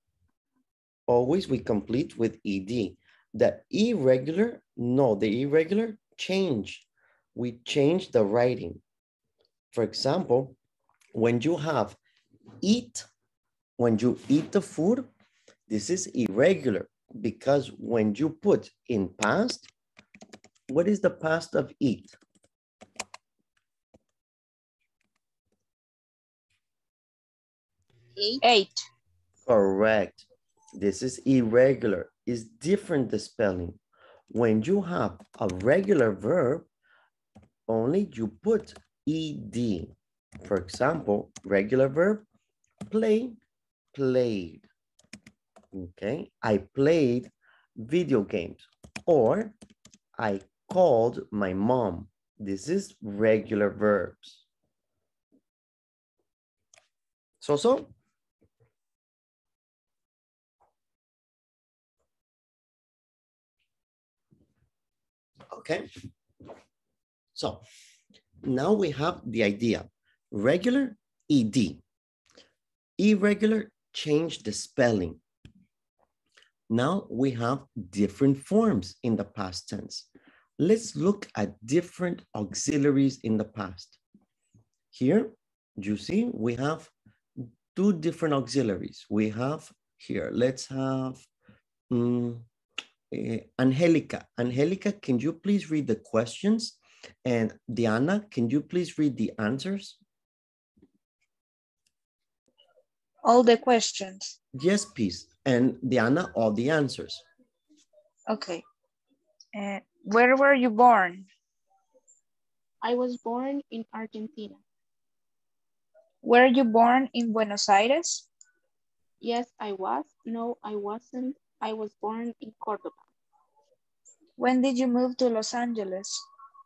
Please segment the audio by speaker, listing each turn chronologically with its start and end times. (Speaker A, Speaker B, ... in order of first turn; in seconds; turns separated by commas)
Speaker A: 1.1-8.8, Speaker A: 9.7-10.6, Speaker A: 11.2-12.0, Speaker A: 12.6-13.1, Speaker A: 13.8-15.1, Speaker A: 15.7-19.7, Speaker A: 20.7-22.1, Speaker B: 28.3-28.9, Speaker A: 29.5-30.2, Speaker A: 30.8-33.8, Speaker A: 34.3-36.7, Speaker A: 37.7-42.2, Speaker A: 42.9-43.4, Speaker A: 43.9-44.7, Speaker A: 45.7-49.5, Speaker A: 50.1-54.5, Speaker A: 57.4-57.9, Speaker A: 65.5-65.9, Speaker A: 67.3-67.6, Speaker A: 68.4-71.8, Speaker A: 73.0-75.2, Speaker A: 76.7-80.1, Speaker A: 80.6-84.0, Speaker A: 84.9-91.2, Speaker A: 91.9-92.5, Speaker A: 93.1-100.0, Speaker B: 103.2-104.3, Speaker A: 104.5-107.2, Speaker B: 108.3-108.6, Speaker B: 109.5-111.3, Speaker C: 112.8-114.6, Speaker B: 116.2-118.3, Speaker C: 119.2-123.0, Speaker B: 124.4-126.3